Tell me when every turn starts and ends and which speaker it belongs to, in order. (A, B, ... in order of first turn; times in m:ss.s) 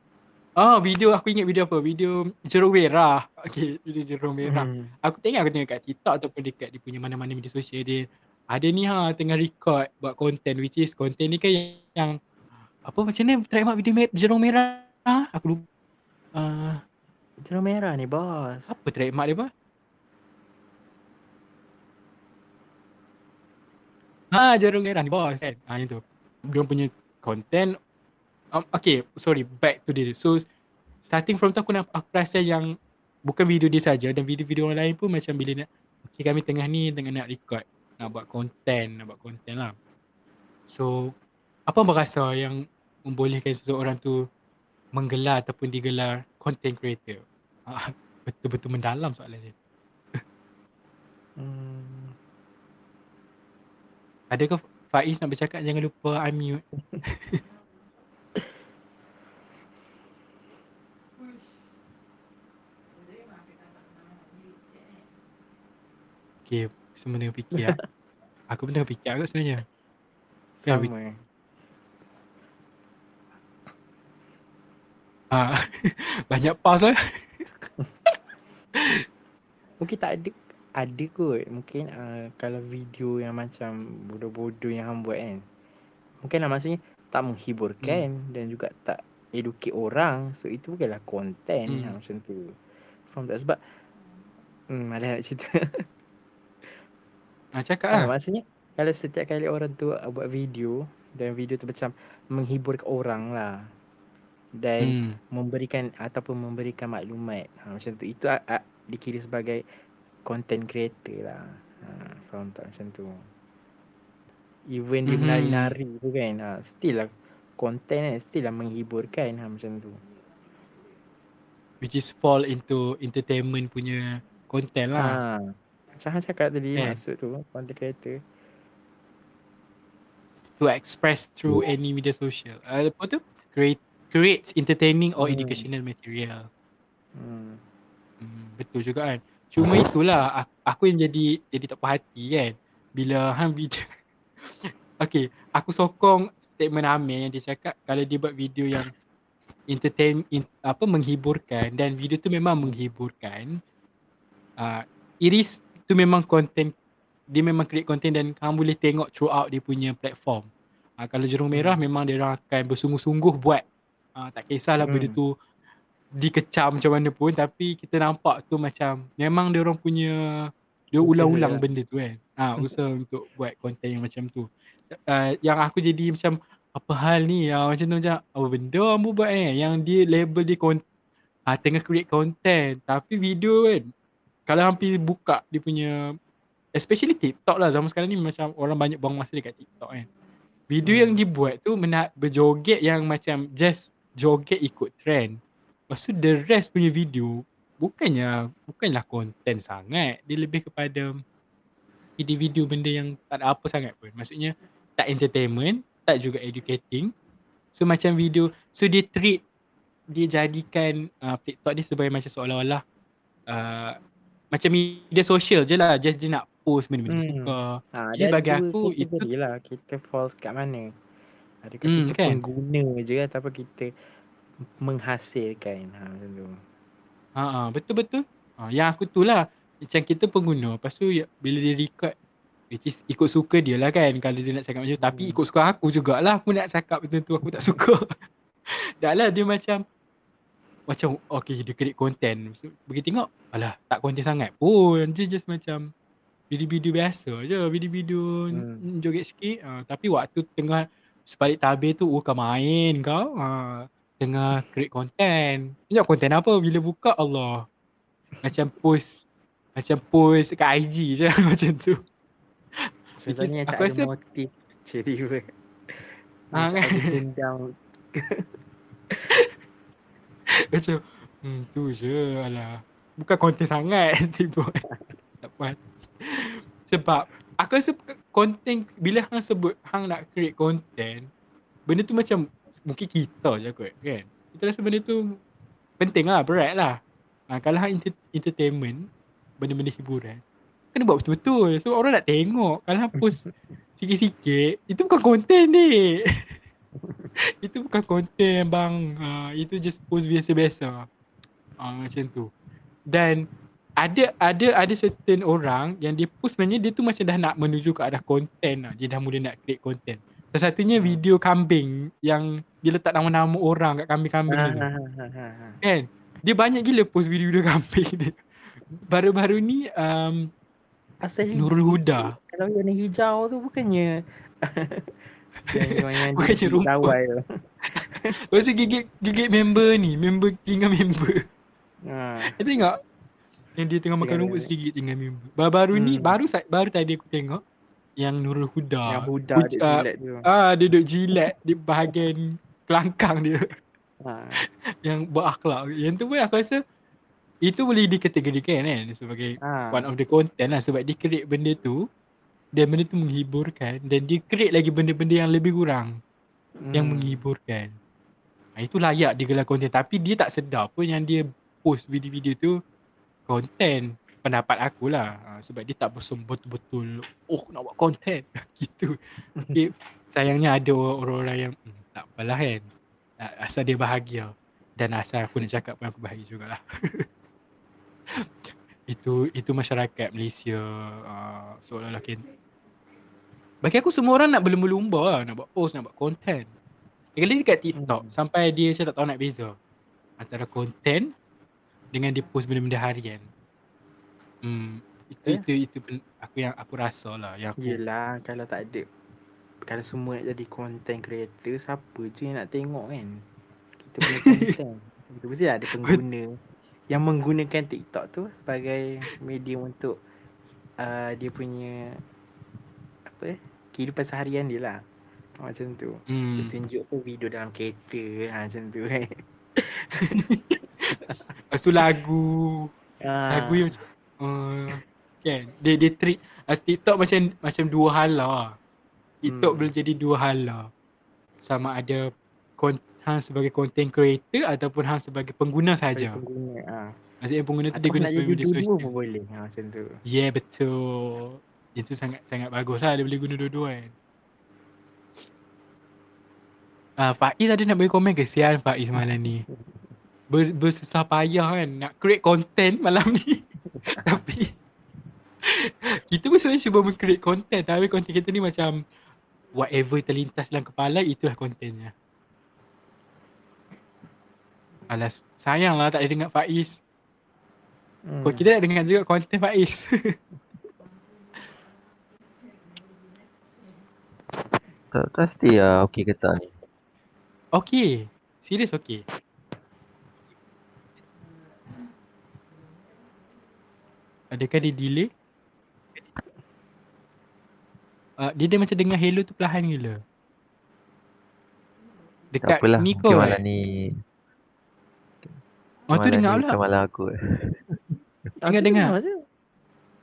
0:00.6-0:12.2 A
0:04.4-0:04.9 B
0:12.8-0:15.6 A
0:16.3-0:16.8 A
0:17.4-0:18.7 B
0:18.7-0:19.5 A
0:24.3-0:27.8 A
0:28.5-0:30.4 A
0:31.0-0:32.7 A
0:33.2-0:39.7 A
0:40.7-0:41.1 A
0:41.7-0:44.2 A
0:44.9-0:49.5 A
0:51.4-0:52.1 B
0:54.3-0:57.4 A
1:06.5-1:07.8 A
1:08.5-1:09.6 A
1:10.6-1:11.2 B
1:10.6-1:10.9 A
1:15.3-1:17.6 A
1:19.8-1:25.4 B
1:26.2-1:32.6 B
1:27.8-1:28.1 A
1:31.7-1:31.9 A
1:33.1-1:33.8 B
1:34.7-1:35.8 B
1:37.5-1:38.1 A
1:37.9-1:43.7 B
1:44.6-1:49.6 B
1:44.8-1:45.2 A
1:50.2-1:53.2 B
1:54.7-2:00.0 B
1:55.1-1:55.7 A
2:01.8-2:05.2 A
2:05.0-2:08.2 B
2:10.6-2:16.5 A
2:15.2-2:15.6 B
2:17.2-2:17.6 B
2:18.2-2:23.9 A
2:24.4-2:28.9 A
2:29.7-2:33.6 A
2:34.6-2:36.7 A
2:37.3-2:43.6 A
2:41.5-2:41.8 B
2:44.2-2:45.3 A
2:44.8-2:45.2 B
2:46.1-3:00.8 A
2:51.0-2:51.6 B
3:01.5-3:03.9 A
3:04.5-3:05.9 A
3:06.7-3:10.1 A
3:10.7-3:15.4 A
3:10.8-3:11.2 B
3:15.9-3:21.2 A
3:22.2-3:27.1 A
3:27.8-3:29.4 A
3:30.1-3:32.8 A
3:33.5-3:34.0 A
3:34.5-3:39.3 A
3:37.1-3:40.9 B
3:41.6-3:43.9 B
3:41.8-3:42.4 A
3:44.8-3:46.6 B
3:47.4-3:52.1 A
3:52.7-3:58.1 A
3:55.0-3:55.4 B
3:59.0-3:59.8 A
4:00.9-4:05.9 A
4:06.5-4:17.6 A
4:08.5-4:08.8 B
4:18.4-4:22.0 A
4:23.2-4:28.5 B
4:23.3-4:24.1 A
4:26.5-4:27.2 A
4:30.7-4:34.8 A
4:35.4-4:41.3 A
4:41.9-4:45.4 A
4:46.0-4:47.0 A
4:47.5-4:49.1 A
4:49.6-4:50.4 A
4:50.9-4:53.4 A
4:53.2-4:53.5 B
4:54.0-4:56.4 A
4:57.0-4:57.3 B
4:57.6-5:01.0 A
5:01.8-5:02.5 A
5:03.1-5:03.4 A
5:04.0-5:14.9 A
5:14.5-5:15.8 B
5:15.8-5:18.4 A
5:19.0-5:20.5 A
5:21.2-5:25.1 B
5:21.5-5:22.3 A
5:25.7-5:27.4 B
5:25.7-5:27.1 A
5:27.9-5:28.3 B
5:28.4-5:31.4 A
5:32.1-5:32.5 B
5:32.5-5:33.0 A
5:33.8-5:37.6 A
5:34.2-5:34.7 B
5:35.9-5:36.4 B
5:38.2-5:43.6 A
5:39.1-5:40.4 B
5:44.2-5:44.6 B
5:44.6-5:46.8 A
5:47.6-5:52.0 A
5:49.6-5:50.1 B
5:52.7-5:56.1 A
5:56.8-5:57.4 B
5:56.9-5:57.9 A
5:58.8-6:02.8 A
6:03.5-6:09.2 A
6:09.6-6:09.8 B
6:09.7-6:12.8 A
6:13.4-6:17.2 A
6:18.3-6:22.4 A
6:23.8-6:26.7 A
6:27.4-6:29.8 A
6:28.0-6:28.3 B
6:30.4-6:31.3 A
6:32.1-6:33.5 A
6:34.6-6:38.0 A
6:37.8-6:39.0 B
6:39.9-6:43.4 B
6:44.0-6:46.6 B
6:44.3-6:44.7 A
6:47.1-6:50.2 B
6:51.0-6:52.2 B
6:53.3-6:55.0 B
6:55.6-7:00.3 B
6:56.3-6:56.7 A
7:00.2-7:01.2 A
7:01.7-7:02.9 A
7:03.2-7:04.0 B
7:03.5-7:08.7 A
7:09.4-7:10.9 A
7:09.5-7:09.9 B
7:11.6-7:16.4 A
7:16.1-7:17.2 B
7:17.4-7:19.1 A
7:17.9-7:20.2 B
7:20.2-7:24.1 A
7:27.2-7:29.6 A
7:29.2-7:30.0 B
7:30.5-7:34.7 A
7:33.9-7:34.4 B
7:35.7-7:39.0 A
7:39.7-7:42.1 A
7:45.1-7:47.0 A
7:48.3-7:48.6 B
7:48.4-7:50.4 A
7:55.1-7:56.7 C
7:57.7-7:59.2 A
8:04.5-8:05.3 A
8:08.4-8:10.2 A
8:12.5-8:13.6 A
8:12.6-8:14.1 C
8:16.1-8:18.0 C
8:16.1-8:16.7 A
8:18.6-8:19.4 B
8:18.7-8:19.1 A